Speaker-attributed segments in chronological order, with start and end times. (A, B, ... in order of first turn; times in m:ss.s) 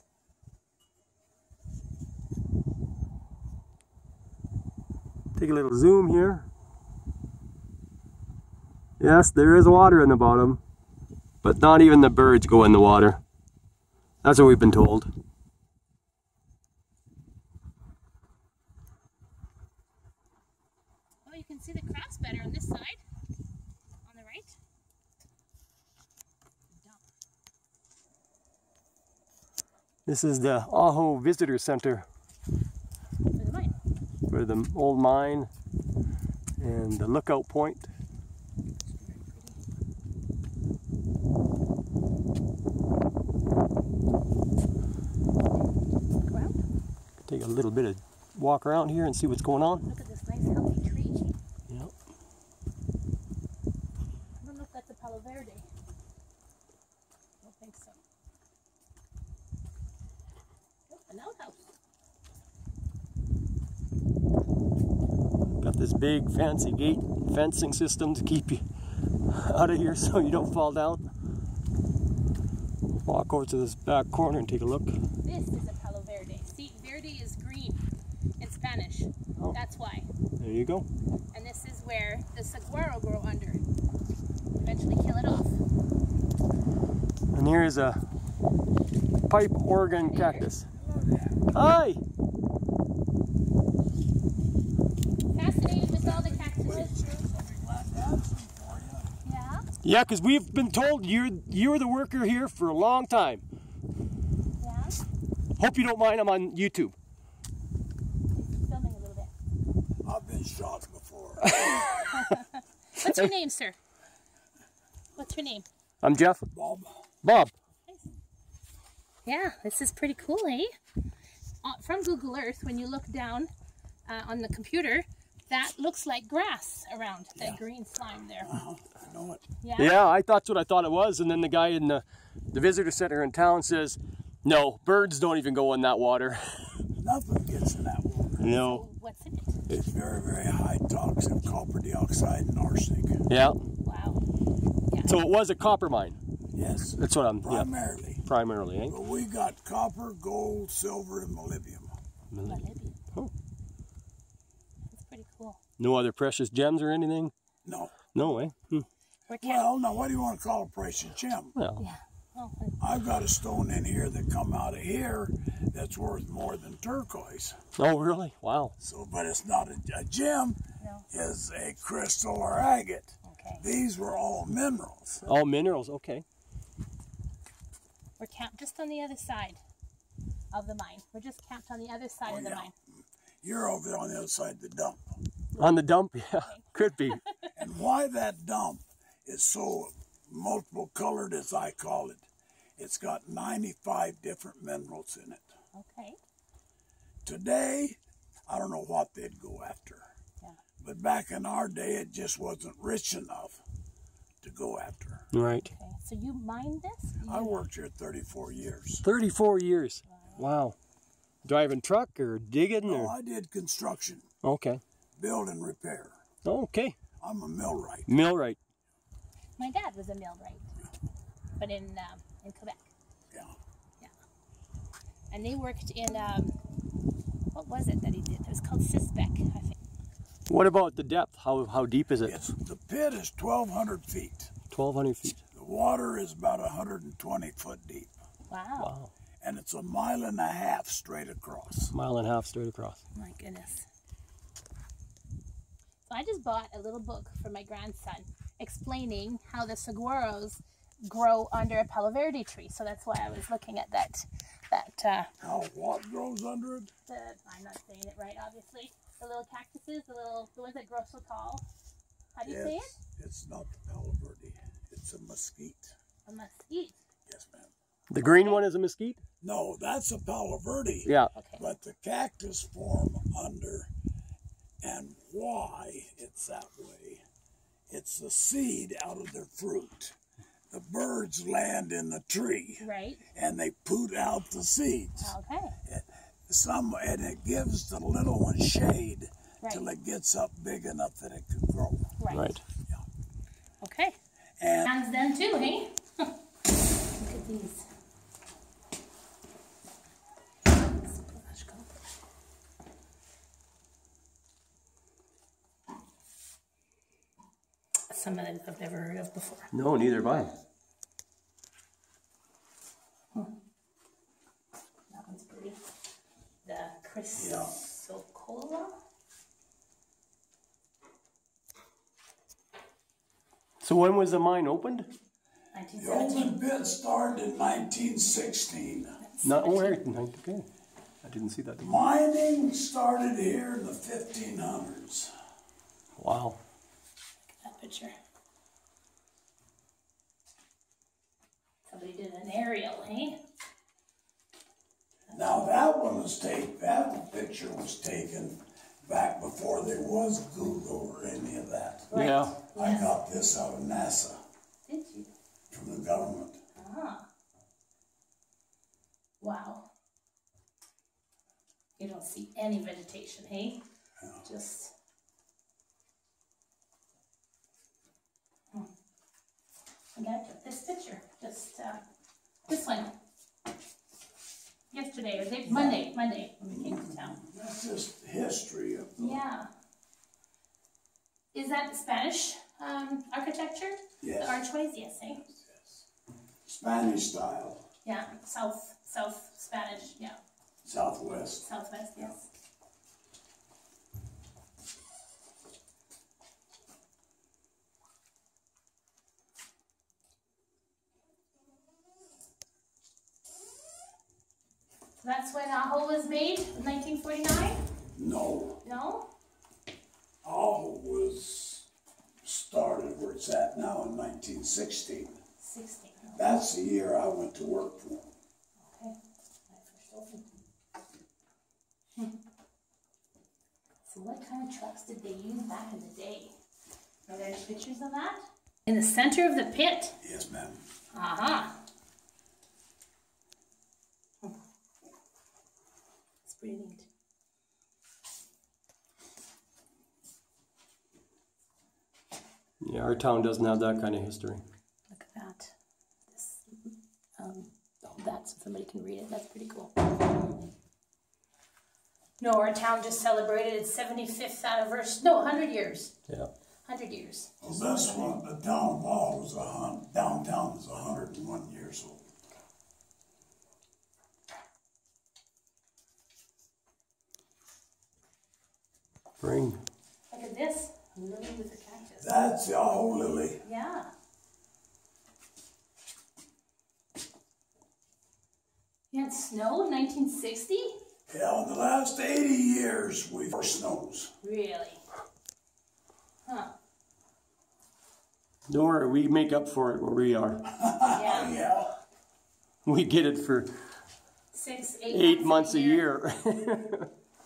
0:05.4-0:06.5 A
0:09.0-0:10.6 A
0:11.4-0:13.2 A
0:14.2-0:15.1 A
0:21.2-0:23.0 B
0:24.0-0:24.6 B
0:30.0-0:32.0 A
0:33.3-0:33.7 B
0:34.3-0:35.5 A
0:36.6-0:37.9 A
0:38.8-0:39.6 B
0:46.2-0:46.6 B
0:47.2-0:49.8 A
0:49.8-0:51.4 B
0:54.4-0:55.6 B
0:57.4-0:58.0 B
1:00.9-1:01.6 B
1:05.6-1:08.6 A
1:09.3-1:11.0 A
1:13.0-1:14.9 A
1:15.2-1:17.8 B
1:18.4-1:20.1 B
1:20.4-1:20.9 A
1:21.3-1:23.6 B
1:24.6-1:25.6 B
1:27.3-1:28.0 A
1:29.3-1:30.7 A
1:30.1-1:30.4 B
1:30.7-1:31.5 C
1:31.5-1:32.0 A
1:35.3-1:36.9 B
1:35.8-1:39.1 C
1:39.2-1:39.6 B
1:39.8-1:43.4 A
1:44.6-1:45.0 B
1:45.6-1:46.9 A
1:48.3-1:49.3 B
1:50.0-1:52.0 C
1:51.4-1:52.4 A
1:52.1-1:53.8 B
1:55.2-1:55.7 B
1:56.0-1:56.5 A
1:56.5-1:57.1 C
1:57.2-1:57.5 A
1:59.2-2:00.7 B
2:01.6-2:03.5 B
2:04.1-2:08.5 B
2:08.4-2:09.4 C
2:09.6-2:09.9 B
2:09.8-2:16.8 A
2:17.0-2:18.4 C
2:18.4-2:18.8 A
2:18.5-2:19.7 B
2:19.7-2:23.2 C
2:23.3-2:23.6 A
2:23.8-2:24.2 B
2:24.9-2:25.2 B
2:25.1-2:26.2 A
2:26.5-2:28.2 C
2:26.9-2:27.7 A
2:28.2-2:29.0 A
2:28.9-2:31.9 C
2:32.3-2:33.3 A
2:32.4-2:33.0 B
2:34.9-2:35.6 B
2:35.8-2:37.3 A
2:37.6-2:38.0 C
2:38.1-2:38.9 A
2:39.3-2:39.7 B
2:39.4-2:41.6 C
2:41.6-2:41.8 A
2:41.8-2:42.8 B
2:42.8-2:47.6 C
2:47.8-2:48.7 A
2:48.8-2:50.6 C
2:50.8-2:51.0 B
2:51.1-2:55.3 C
2:53.2-2:53.6 B
2:55.2-2:56.2 A
2:58.2-2:59.6 B
3:00.5-3:02.7 B
3:02.2-3:02.8 C
3:03.4-3:05.2 C
3:05.6-3:07.2 A
3:06.4-3:07.3 B
3:07.6-3:12.3 C
3:12.8-3:15.4 C
3:15.7-3:16.2 B
3:17.2-3:20.1 C
3:20.8-3:23.6 C
3:24.4-3:25.2 C
3:25.3-3:25.7 A
3:25.5-3:27.6 B
3:27.2-3:29.0 C
3:29.0-3:30.7 A
3:30.1-3:30.5 B
3:31.4-3:33.1 A
3:32.8-3:34.2 C
3:34.4-3:34.8 A
3:35.2-3:36.2 C
3:36.4-3:37.0 A
3:37.2-3:38.1 C
3:38.1-3:38.6 A
3:39.6-3:40.7 B
3:41.6-3:42.9 B
3:43.3-3:43.6 C
3:45.3-3:46.5 B
3:47.5-3:49.8 B
3:50.5-3:52.5 A
3:52.2-3:54.5 C
3:54.7-3:55.4 A
3:55.5-3:58.1 C
3:58.5-3:58.9 B
3:58.8-3:59.1 A
3:59.4-4:01.9 C
4:01.9-4:03.0 A
4:03.1-4:03.8 B
4:06.0-4:15.3 B
4:15.4-4:16.9 C
4:17.0-4:21.6 B
4:22.3-4:23.0 B
4:22.4-4:25.9 C
4:26.3-4:27.0 B
4:27.3-4:27.7 C
4:28.1-4:29.2 A
4:28.2-4:28.6 B
4:29.4-4:33.9 C
4:31.0-4:31.3 A
4:31.3-4:31.6 B
4:34.8-4:37.2 C
4:37.9-4:40.2 C
4:40.7-4:52.1 C
4:42.8-4:43.2 B
4:45.2-4:45.8 B
4:49.6-4:49.9 B
4:52.2-4:52.5 B
4:52.3-4:52.6 A
4:53.8-4:54.2 B
4:54.6-4:54.9 C
4:54.8-4:56.3 B
4:57.1-4:57.8 B
5:00.7-5:02.0 B
5:08.1-5:09.7 B
5:09.7-5:10.5 A
5:15.1-5:15.8 B
5:16.6-5:18.9 B
5:17.3-5:17.7 C
5:23.8-5:25.1 A
5:25.7-5:26.6 B
5:26.0-5:29.2 C
5:29.2-5:30.0 B
5:29.4-5:30.7 A
5:31.2-5:31.9 A
5:31.8-5:35.3 C
5:36.2-5:36.6 A
5:37.5-5:38.1 B
5:41.8-5:43.4 B
5:45.3-5:52.1 C
5:52.1-5:53.1 B
5:52.1-5:52.6 A
5:52.7-5:54.4 C
5:54.8-5:55.3 B
5:55.7-5:56.6 C
5:56.8-5:57.2 B
5:59.4-5:59.9 B
6:02.0-6:03.8 B
6:04.4-6:04.9 B
6:10.2-6:12.0 B
6:12.7-6:13.1 B
6:14.9-6:17.3 B
6:15.7-6:16.0 C
6:16.7-6:19.4 C
6:19.2-6:19.7 B
6:21.5-6:25.4 B
6:24.2-6:24.6 C
6:25.4-6:26.0 C
6:26.6-6:27.8 C
6:28.0-6:30.4 B
6:30.8-6:31.7 C
6:31.6-6:32.4 B
6:45.2-6:47.8 B
6:48.1-6:48.8 C
6:48.8-6:49.3 B
6:50.4-6:51.8 C
6:52.4-6:55.4 C
6:55.6-6:56.4 B
6:56.4-6:58.3 C
6:58.8-6:59.2 B
6:59.7-7:00.5 B
7:04.0-7:06.5 B
7:07.3-7:10.2 B
7:10.2-7:10.8 C
7:11.1-7:11.7 B
7:16.4-7:17.0 B
7:22.8-7:24.6 A
7:25.1-7:25.7 B
7:26.3-7:30.7 B
7:32.4-7:36.1 B
7:36.8-7:38.4 B
7:37.6-7:42.3 C
7:49.4-7:49.8 A
7:50.3-7:52.3 B
7:52.2-7:53.6 C
7:53.6-7:54.1 B
7:59.1-8:01.0 B
8:01.3-8:04.3 C
8:04.4-8:05.0 B
8:06.4-8:06.7 B
8:08.7-8:10.6 A
8:10.7-8:11.9 C
8:11.1-8:11.6 B
8:12.8-8:13.7 A
8:14.5-8:16.1 B
8:15.1-8:17.1 A